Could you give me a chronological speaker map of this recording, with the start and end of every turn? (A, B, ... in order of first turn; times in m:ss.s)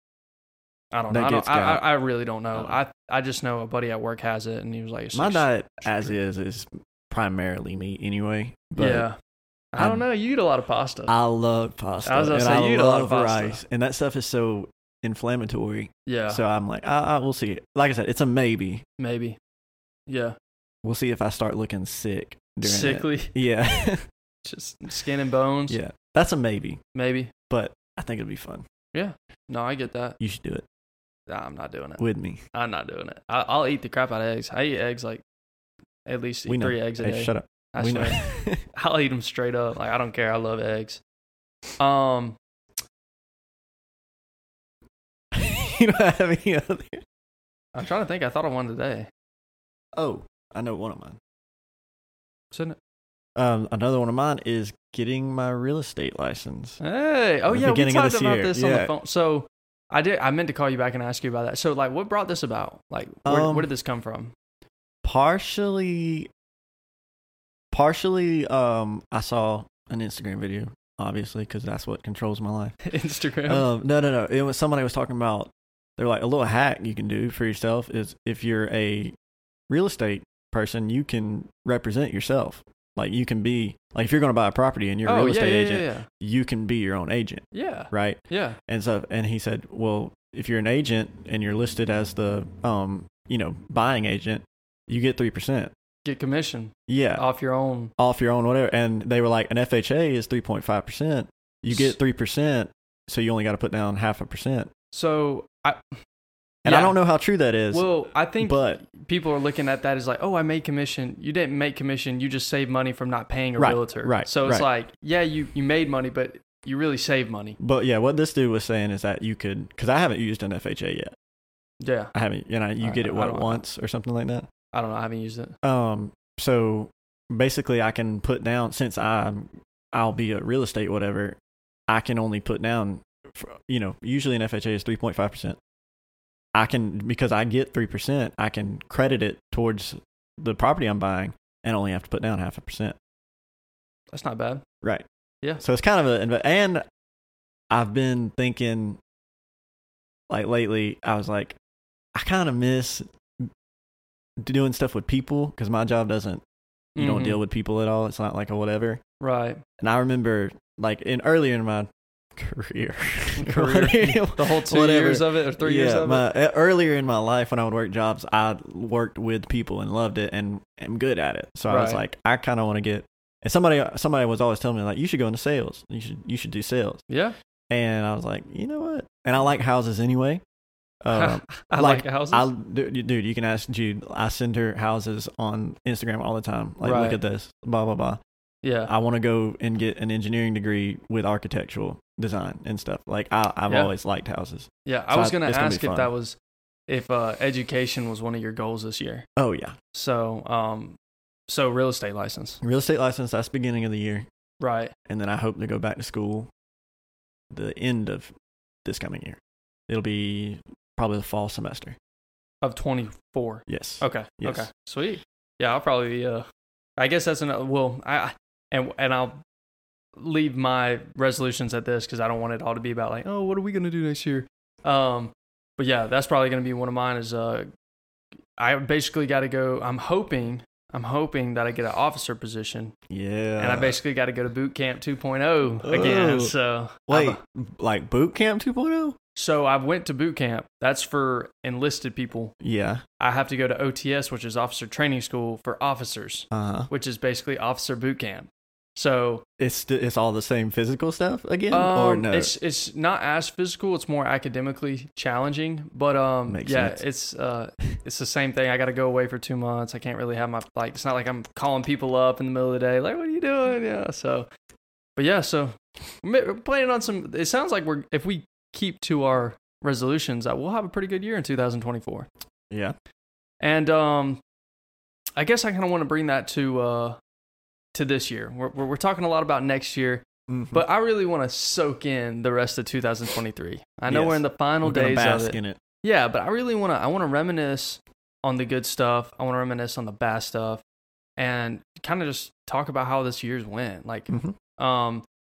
0:00.9-0:06.2 A
0:01.1-0:01.9 B
0:02.5-0:02.8 B
0:05.1-0:09.1 B
0:08.8-0:09.2 A
0:09.7-0:11.1 A
0:09.8-0:10.0 B
0:11.1-0:18.8 B
0:12.0-0:13.6 A
0:16.1-0:16.4 A
0:19.0-0:19.4 A
0:20.1-0:20.4 A
0:20.8-0:24.0 B
0:22.6-0:23.4 A
0:24.4-0:25.8 A
0:25.7-0:26.8 B
0:27.0-0:27.3 A
0:27.5-0:28.6 B
0:28.9-0:30.2 A
0:30.2-0:30.6 B
0:31.3-0:32.0 A
0:32.0-0:32.4 B
0:32.5-0:35.2 A
0:36.1-0:38.2 A
0:36.5-0:38.6 B
0:38.7-0:41.0 A
0:41.8-0:42.4 A
0:45.3-0:47.0 B
0:47.8-0:49.1 A
0:50.0-0:51.2 B
0:52.5-0:52.8 A
0:53.4-0:56.8 B
0:56.8-1:04.3 A
0:57.5-0:58.9 B
1:03.2-1:03.7 B
1:05.0-1:06.3 B
1:07.7-1:12.8 B
1:12.8-1:13.7 A
1:13.5-1:19.1 B
1:19.7-1:35.7 B
1:25.1-1:26.1 A
1:27.5-1:28.6 A
1:36.0-1:37.9 A
1:36.9-1:37.2 B
1:38.0-1:44.7 B
1:44.9-1:45.9 A
1:46.6-1:47.9 B
1:46.6-1:47.0 A
1:47.7-1:57.6 A
1:48.4-1:48.8 B
1:53.6-1:54.7 B
1:57.6-2:01.1 B
2:01.8-2:02.1 A
2:02.1-2:04.5 B
2:02.8-2:03.6 A
2:04.7-2:05.6 A
2:05.6-2:11.4 B
2:11.9-2:15.6 B
2:16.6-2:23.0 B
2:24.1-2:24.6 A
2:25.6-2:26.8 B
2:27.7-2:29.0 B
2:30.3-2:31.6 B
2:32.2-2:33.5 B
2:34.4-2:36.4 B
2:37.0-2:37.4 A
2:37.0-2:39.0 B
2:39.2-2:39.6 A
2:39.8-2:57.0 B
2:43.4-2:46.3 A
2:51.7-2:52.0 A
2:57.1-2:57.4 A
2:57.7-3:00.4 B
3:01.0-3:08.2 B
3:01.1-3:02.5 A
3:06.8-3:07.2 A
3:08.6-3:08.9 A
3:08.9-3:16.1 B
3:14.9-3:19.3 A
3:19.4-3:19.8 B
3:19.9-3:21.0 A
3:21.5-3:22.6 A
3:22.6-3:24.3 B
3:24.6-3:24.9 A
3:25.1-3:26.5 B
3:27.5-3:28.3 B
3:28.8-3:32.0 B
3:32.6-3:36.5 A
3:33.7-3:34.7 B
3:37.0-3:39.4 A
3:40.2-3:47.7 A
3:48.6-3:53.0 A
3:53.1-3:54.0 B
3:53.6-3:57.4 A
3:55.8-3:56.5 B
3:57.1-3:59.2 B
3:59.4-4:02.6 A
4:02.6-4:03.0 B
4:03.2-4:09.4 A
4:06.5-4:06.9 B
4:09.6-4:12.5 B
4:11.7-4:24.5 A
4:16.5-4:17.0 B
4:25.2-4:32.3 A
4:33.6-4:34.4 A
4:35.4-4:37.2 A
4:37.9-4:50.8 A
4:40.5-4:40.8 B
4:44.1-4:45.8 B
4:51.4-4:55.2 A
4:54.3-4:54.6 B